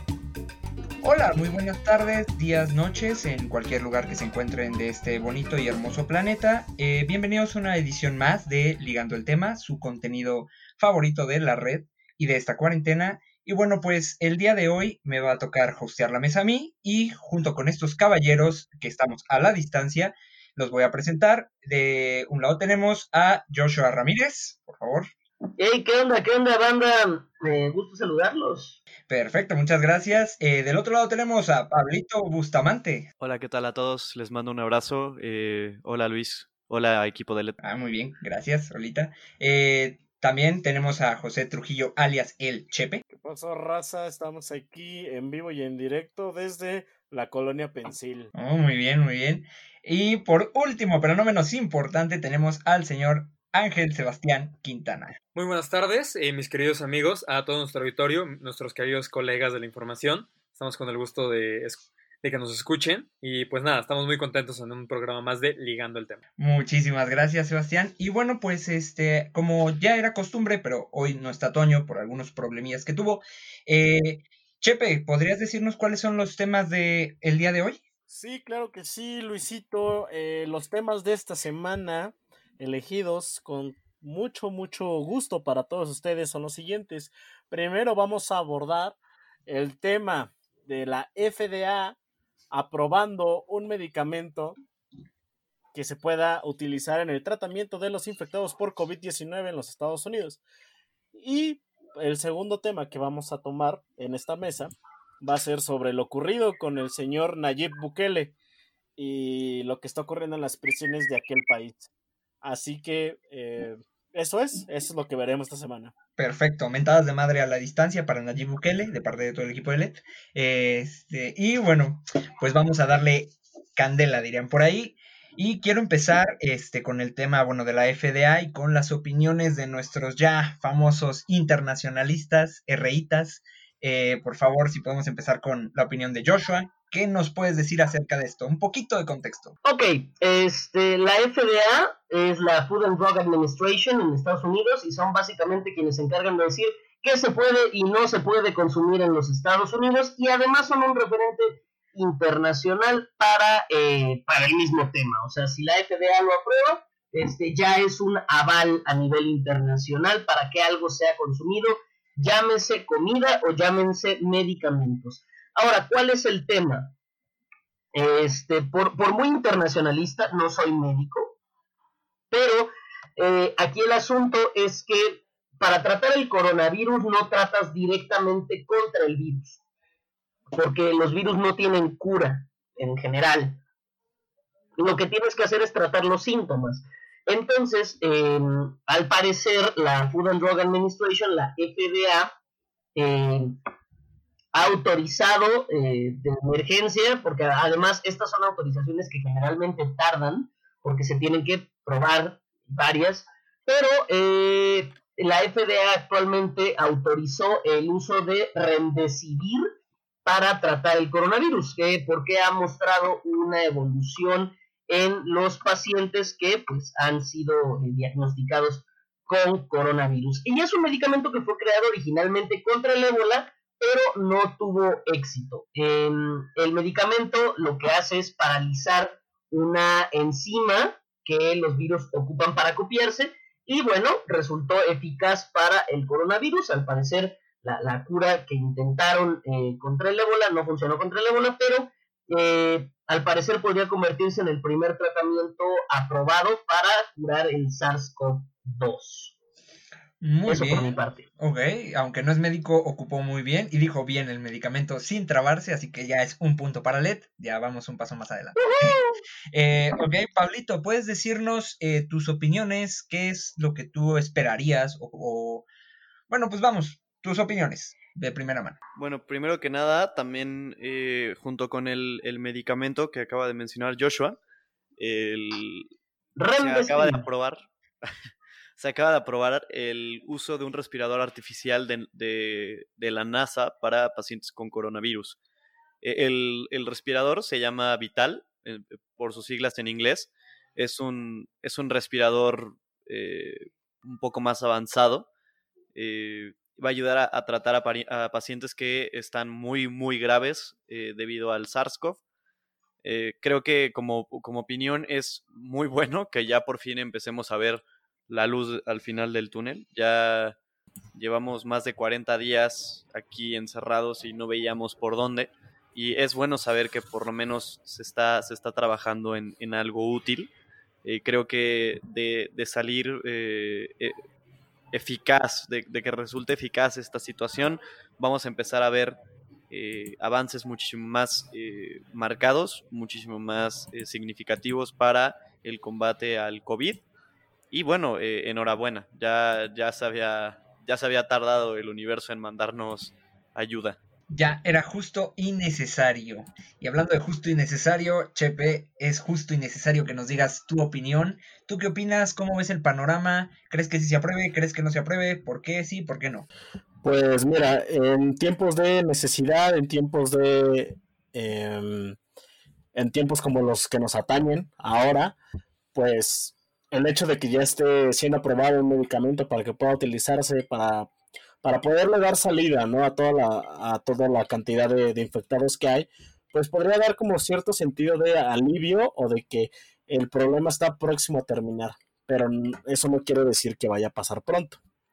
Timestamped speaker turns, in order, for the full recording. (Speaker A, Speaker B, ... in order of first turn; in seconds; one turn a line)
Speaker A: 1.0-25.1
Speaker B: 25.6-28.8
Speaker A: 29.1-33.1
Speaker C: 33.2-37.6
Speaker A: 37.6-43.0
Speaker D: 43.1-48.3
Speaker A: 48.4-55.2
Speaker E: 55.4-66.2
Speaker A: 66.4-77.8
Speaker D: 78.1-92.0
Speaker D: 92.5-94.6
Speaker D: 95.7-100.4
Speaker D: 101.1-108.3
Speaker D: 109.0-111.9
Speaker D: 112.4-115.9
Speaker A: 116.2-139.6
Speaker B: 139.6-166.9
Speaker B: 167.9-171.4
Speaker B: 172.3-179.6
Speaker B: 180.5-183.6
Speaker B: 184.8-192.4
Speaker B: 192.9-193.6
Speaker B: 194.5-209.7
Speaker B: 210.2-249.3
Speaker A: 250.2-259.0
Speaker B: 250.5-251.3
Speaker B: 258.6-259.2
Speaker A: 259.5-265.7
Speaker A: 266.3-268.8
Speaker C: 269.0-274.4
Speaker C: 275.0-275.9
Speaker B: 276.4-277.2
Speaker C: 276.6-277.7
Speaker C: 278.8-285.4
Speaker C: 286.0-295.3
Speaker C: 295.9-302.2
Speaker C: 303.0-310.6
Speaker C: 311.1-320.5
Speaker C: 321.0-324.2
Speaker C: 324.9-337.0
Speaker C: 337.7-344.0
Speaker A: 344.3-356.5
Speaker D: 357.0-362.2
Speaker D: 362.9-365.4
Speaker D: 365.9-371.1
Speaker D: 371.6-384.8